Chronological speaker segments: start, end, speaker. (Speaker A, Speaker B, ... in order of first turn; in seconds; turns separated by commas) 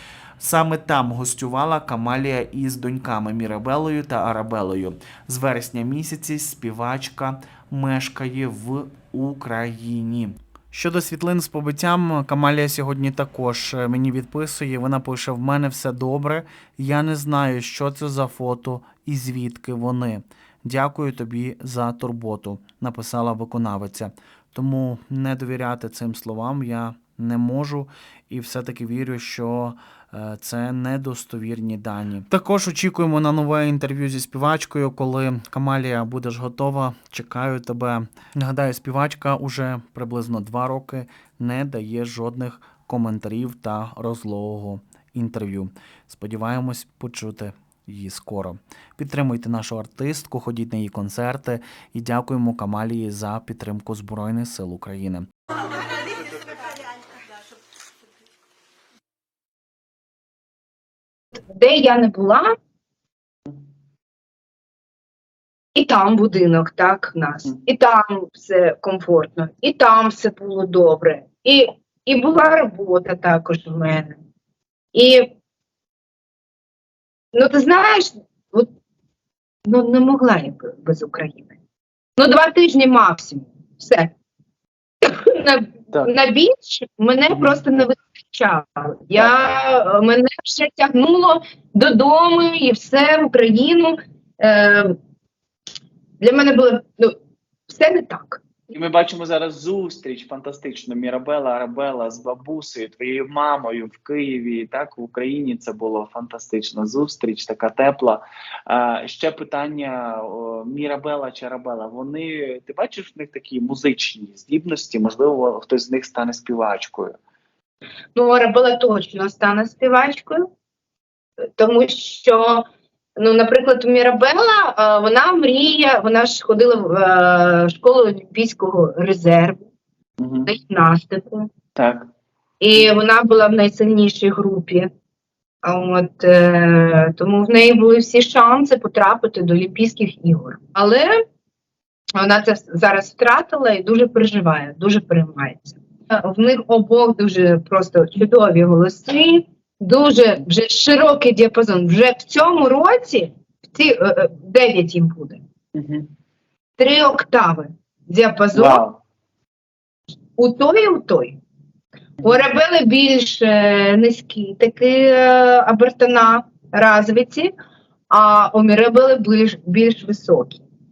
Speaker A: 0.4-55.2, Speaker B: 61.4-62.5, Speaker B: 65.7-74.2, Speaker B: 74.9-75.3, Speaker B: 77.3-78.7, Speaker B: 79.7-81.5, Speaker B: 82.2-84.1, Speaker B: 85.0-94.9, Speaker C: 87.3-87.8, Speaker C: 89.2-89.4, Speaker B: 96.2-97.1, Speaker B: 97.7-98.4, Speaker C: 98.7-117.2, Speaker B: 118.1-120.5, Speaker B: 121.5-122.6, Speaker B: 123.2-129.6, Speaker C: 130.2-130.5, Speaker B: 130.4-131.5, Speaker C: 131.8-132.1, Speaker B: 132.6-134.9, Speaker B: 135.6-141.2, Speaker B: 142.2-155.4, Speaker C: 155.7-156.1, Speaker B: 156.8-158.8, Speaker C: 158.5-159.0, Speaker B: 160.4-161.4, Speaker B: 162.2-167.5, Speaker B: 168.1-170.6